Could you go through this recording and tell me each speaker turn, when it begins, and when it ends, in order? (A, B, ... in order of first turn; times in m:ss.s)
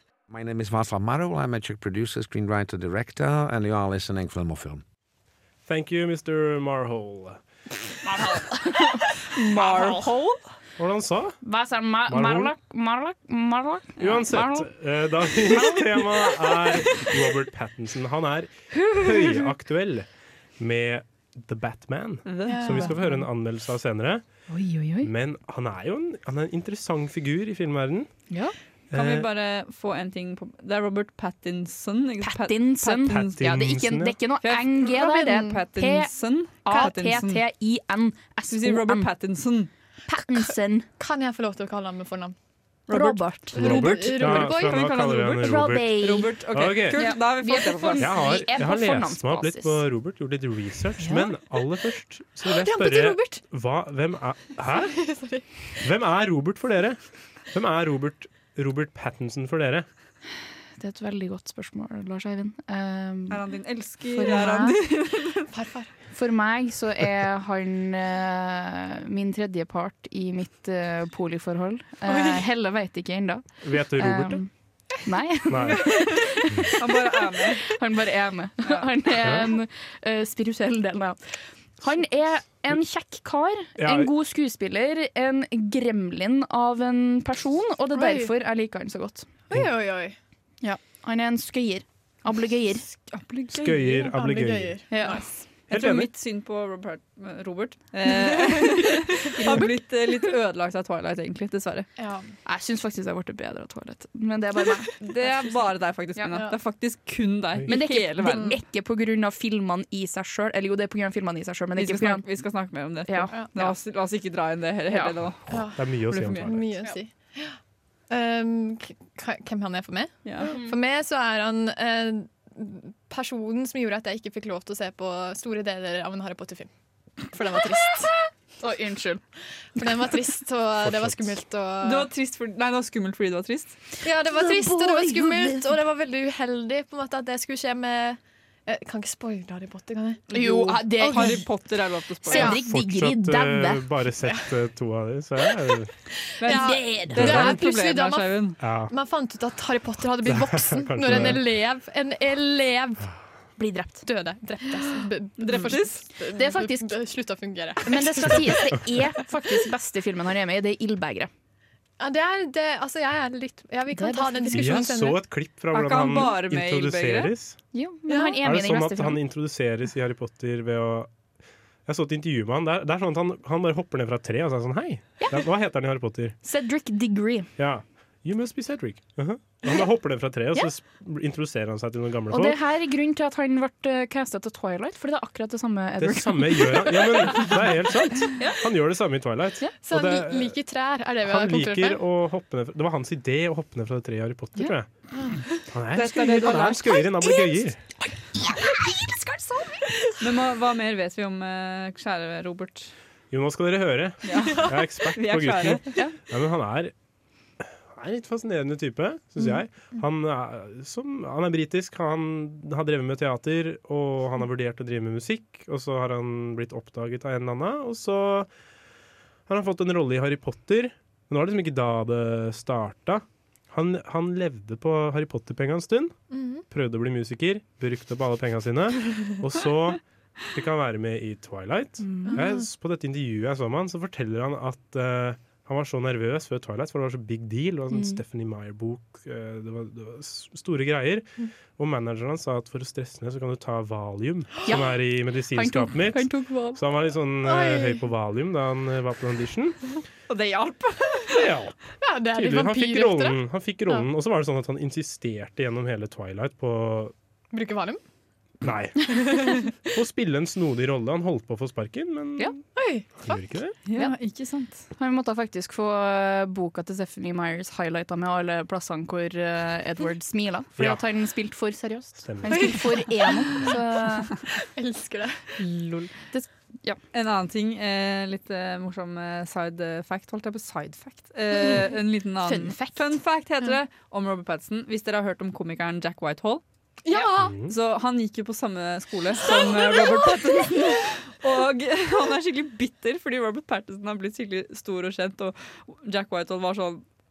0:00.3-0:04.8 A
0:05.7-0:07.4 B
0:08.0-0:10.1 C
0:09.3-0:10.4 D
0:10.8-0:11.4 B
0:11.4-0:14.7 C
0:12.1-0:12.5 B
0:14.0-0:20.1 B
0:15.5-0:16.1 C
0:20.6-0:24.2 B
0:22.3-0:22.9 D
0:22.5-0:23.0 E
0:24.5-0:25.1 C
0:25.0-0:28.1 B
0:28.9-0:29.3 B
0:28.9-0:33.4 D
0:32.2-0:36.1 C
0:33.1-0:34.2 B
0:34.4-0:37.4 D
0:35.0-0:35.5 E
0:36.6-0:39.1 C
0:38.5-0:39.7 D
0:40.1-0:40.9 C
0:41.0-0:42.4 E
0:42.9-0:45.4 D
0:42.9-0:46.4 C
0:43.5-0:44.8 E
0:43.5-0:47.2 B
0:46.0-0:48.2 D
0:46.9-0:49.8 C
0:48.0-0:55.1 B
0:51.0-0:51.3 C
0:52.4-0:53.4 E
0:54.7-0:55.4 E
0:55.8-0:57.0 B
0:57.5-0:59.9 B
1:00.8-1:03.4 C
1:03.3-1:05.5 D
1:04.1-1:04.8 C
1:05.5-1:05.9 E
1:06.1-1:14.5 C
1:12.1-1:12.4 E
1:13.6-1:14.4 B
1:15.0-1:21.2 C
1:15.5-1:15.9 B
1:16.8-1:17.7 D
1:19.2-1:19.5 B
1:21.8-1:29.3 C
1:23.8-1:24.1 B
1:27.9-1:28.3 E
1:29.5-1:30.2 E
1:30.6-1:32.9 C
1:33.1-1:34.1 D
1:33.5-1:34.8 B
1:34.1-1:35.4 E
1:34.9-1:35.3 C
1:35.7-1:41.9 D
1:35.7-1:36.1 B
1:39.4-1:39.8 C
1:42.0-1:42.3 E
1:42.4-1:45.1 C
1:45.0-1:48.5 D
1:47.7-1:52.2 C
1:48.2-1:48.6 E
1:51.8-1:56.5 D
1:53.1-1:53.5 C
1:53.3-1:53.7 E
1:54.9-1:55.2 C
1:55.5-1:57.6 E
1:55.6-1:56.8 B
1:58.1-2:06.7 E
2:00.2-2:00.6 D
2:00.5-2:00.8 C
2:07.3-2:08.1 E
2:08.6-2:09.2 C
2:09.8-2:12.1 E
2:09.8-2:10.2 C
2:10.8-2:11.3 B
2:11.8-2:13.8 D
2:14.0-2:20.3 E
2:14.2-2:15.8 C
2:20.3-2:22.6 D
2:20.3-2:21.6 C
2:21.0-2:21.5 E
2:22.2-2:23.9 C
2:22.3-2:22.6 E
2:22.4-2:25.9 B
2:26.4-2:28.6 D
2:26.4-2:33.1 E
2:26.5-2:27.5 C
2:27.1-2:27.6 B
2:28.6-2:28.9 B
2:30.2-2:31.5 B
2:33.6-2:34.0 C
2:34.0-2:38.7 E
2:35.4-2:36.0 D
2:36.3-2:37.0 C
2:37.8-2:41.3 C
2:42.0-2:45.2 E
2:43.9-2:44.8 C
2:44.5-2:47.6 B
2:45.7-2:47.3 D
2:47.7-2:49.2 C
2:48.1-2:48.4 E
2:48.4-2:51.1 B
2:51.9-2:56.4 B
2:56.4-2:57.5 C
2:57.6-3:02.6 B
3:02.3-3:07.6 C
3:06.0-3:10.6 B
3:09.8-3:12.0 E
3:11.2-3:14.9 B
3:15.2-3:15.6 E
3:15.7-3:17.8 B
3:15.9-3:17.1 D
3:16.9-3:17.6 C
3:18.4-3:20.1 C
3:20.2-3:22.9 D
3:23.3-3:26.9 B
3:24.2-3:26.0 D
3:27.9-3:38.5 B
3:39.5-3:46.1 B
3:46.3-3:46.6 E
3:46.7-3:50.0 B
3:50.5-4:09.8 B
3:52.0-3:52.4 C
3:57.9-3:58.2 C
4:04.7-4:06.8 C
4:07.4-4:08.0 E
4:10.3-4:11.4 D
4:11.3-4:11.8 B
4:12.0-4:14.1 E
4:12.3-4:17.1 B
4:17.5-4:18.0 E
4:18.6-4:19.3 B
4:19.1-4:19.7 E
4:19.9-4:22.6 B
4:22.8-4:23.4 E
4:23.2-4:23.8 B
4:23.9-4:24.9 D
4:25.0-4:34.4 C
4:30.8-4:31.0 B
4:32.2-4:32.8 B
4:32.5-4:33.7 E
4:34.8-4:35.5 E
4:35.6-4:36.1 D
4:36.3-4:37.0 C
4:37.1-4:46.6 D
4:42.4-4:43.2 C
4:47.0-4:47.6 E
4:47.4-4:47.7 B
4:47.7-4:57.0 D